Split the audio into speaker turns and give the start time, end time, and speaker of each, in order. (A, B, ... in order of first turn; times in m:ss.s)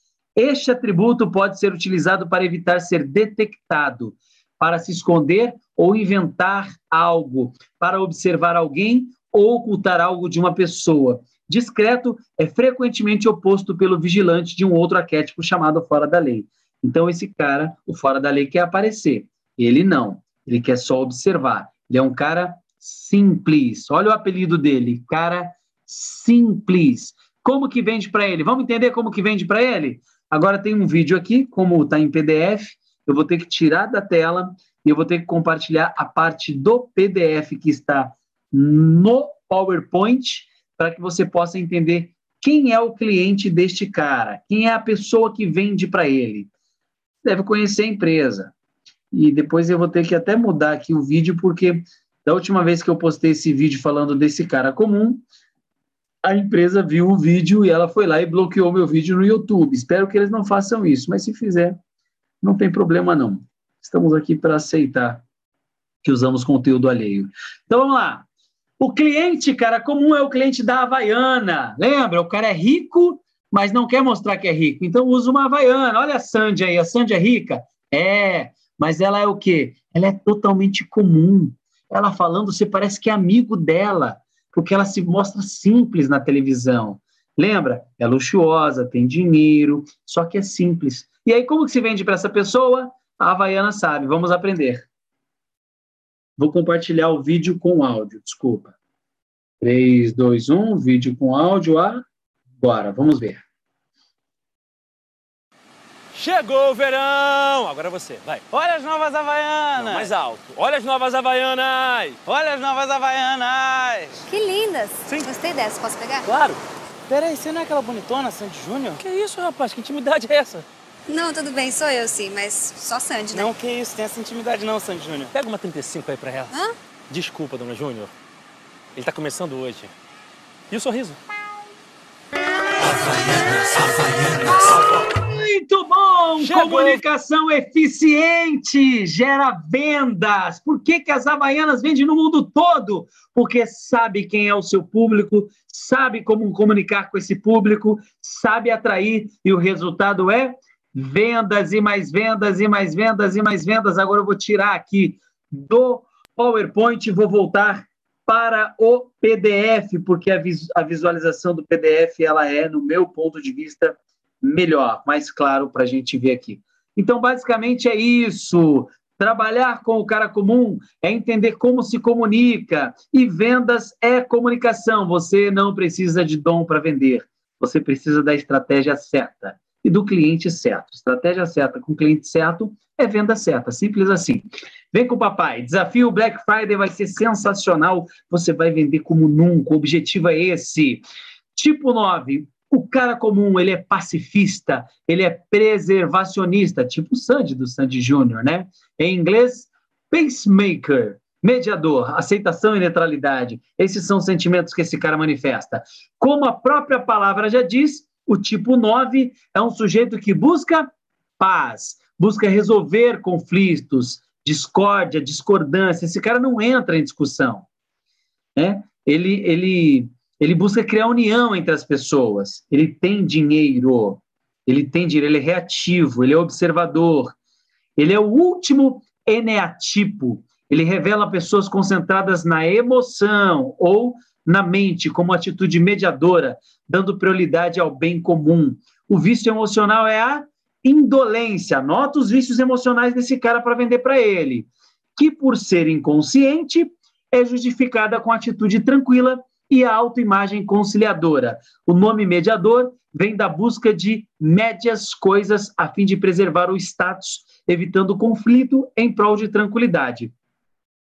0:00.4-0:46.5 A
0:47.2-0:48.5 A
0:49.1-0:55.2 A
0:56.2-1:01.8 A
1:02.4-1:05.2 A
1:06.0-1:08.3 A
1:08.8-1:34.9 A
1:36.4-1:38.8 A
1:39.6-1:42.0 A
1:42.6-1:43.4 A
1:46.1-1:48.5 B
1:48.5-1:50.1 C
1:49.8-1:52.2 B
1:52.2-1:54.2 C
1:54.3-1:56.3 D
1:56.3-1:56.6 B
1:57.1-1:59.0 C
1:59.0-2:00.6 B
2:01.1-2:03.5 D
2:03.3-2:05.3 C
2:05.3-2:06.6 B
2:07.1-2:08.1 B
2:09.0-2:09.9 B
2:10.7-2:11.2 B
2:12.8-2:15.0 B
2:15.0-3:11.0 A
2:16.4-2:17.0 B
3:11.6-3:37.7 A
3:38.6-3:47.4 A
3:48.0-4:20.3 A